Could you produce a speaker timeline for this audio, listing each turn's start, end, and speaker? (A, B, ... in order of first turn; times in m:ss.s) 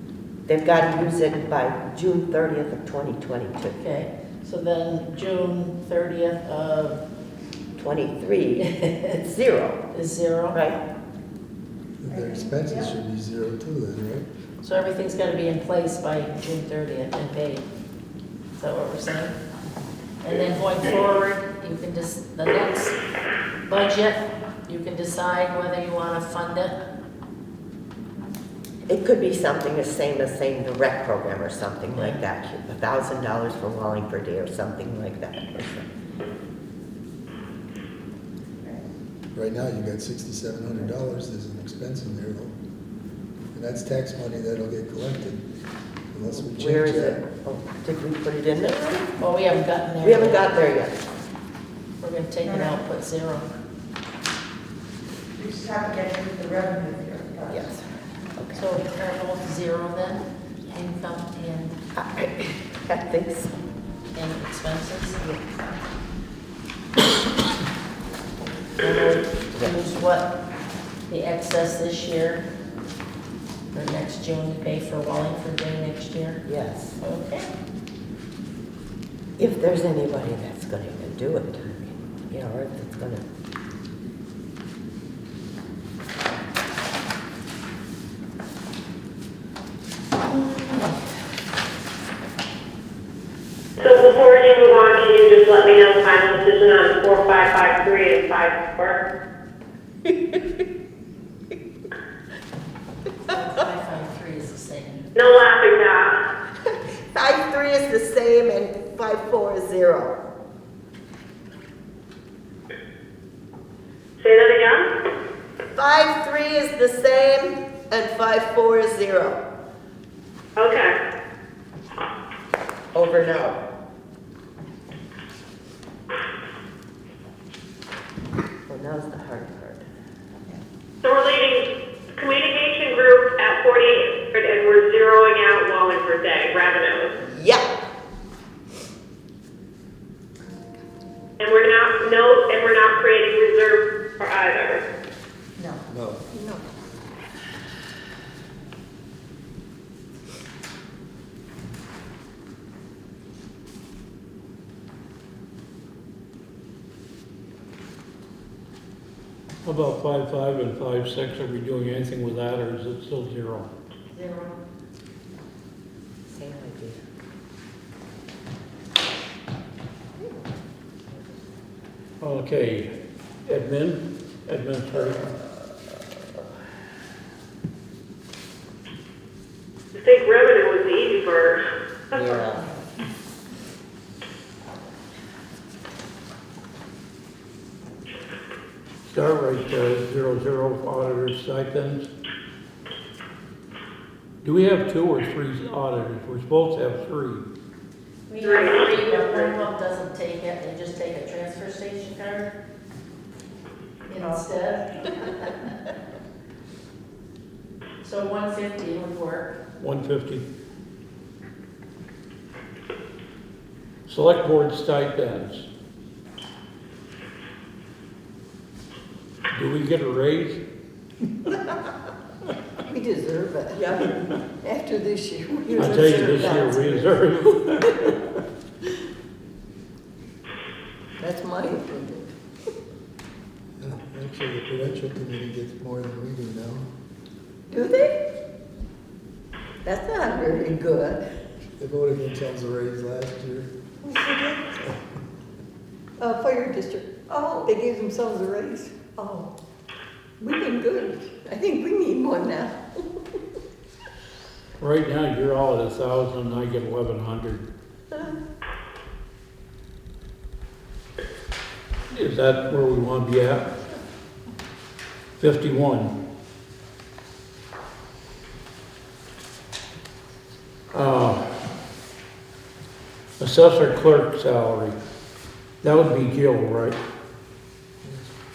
0:00.5-0:03.8 A
0:03.8-0:07.0 B
0:07.8-0:09.8 A
0:08.8-0:09.2 B
0:09.9-0:10.6 B
0:10.5-0:10.8 A
0:12.0-0:14.3 C
0:12.2-0:12.8 D
0:14.6-0:17.7 B
0:18.6-0:19.4 B
0:20.2-0:23.0 B
0:23.6-0:26.8 B
0:28.9-0:35.9 A
0:31.9-0:32.2 B
0:38.6-0:38.9 D
0:39.3-0:42.5 C
0:43.5-0:45.4 C
0:46.1-0:47.2 C
0:46.3-0:49.2 A
0:49.2-0:50.7 B
0:50.0-0:51.0 A
0:52.0-0:53.5 B
0:52.4-0:52.7 D
0:55.4-0:57.6 D
0:57.5-0:58.7 A
0:58.6-1:01.8 B
1:02.0-1:03.5 A
1:04.2-1:05.2 B
1:08.8-1:10.3 B
1:08.8-1:09.8 A
1:11.1-1:12.4 B
1:13.7-1:16.4 B
1:16.5-1:17.0 A
1:17.0-1:17.5 B
1:19.4-1:23.2 A
1:30.4-1:30.9 B
1:33.8-1:39.0 E
1:40.1-1:40.4 A
1:43.2-1:45.1 B
1:45.2-1:46.2 E
1:47.1-1:50.1 A
1:54.2-1:54.9 E
1:55.8-1:59.4 A
2:00.6-2:01.0 E
2:02.9-2:03.6 A
2:08.7-2:09.8 A
2:11.0-2:17.1 E
2:17.2-2:17.7 A
2:20.5-2:20.8 F
2:21.4-2:24.8 E
2:25.9-2:26.2 C
2:26.3-2:26.6 F
2:39.6-2:43.7 G
2:44.1-2:44.6 B
2:46.3-2:47.0 A
2:52.2-2:52.9 G
2:53.5-2:55.2 G
2:54.9-2:55.5 A
3:00.0-3:02.4 E
3:02.1-3:02.6 A
3:09.1-3:12.1 G
3:14.4-3:17.4 G
3:18.3-3:22.5 B
3:18.4-3:19.5 E
3:24.1-3:25.7 B
3:28.0-3:29.6 B
3:29.8-3:30.5 G
3:34.1-3:35.7 G
3:39.5-3:40.6 G
3:42.8-3:47.3 F
3:43.8-3:44.1 A
3:45.7-3:48.3 G
3:51.2-3:52.3 F
3:53.8-3:56.9 C
3:57.7-3:58.2 F
3:59.8-4:01.2 F
4:01.8-4:03.7 C
4:04.1-4:04.8 F
4:06.2-4:09.5 F
4:10.4-4:13.1 F
4:14.8-4:17.6 G
4:22.1-4:23.7 G
4:25.4-4:26.1 G
4:30.9-4:31.4 G
4:33.4-4:35.0 G
4:35.8-4:37.0 G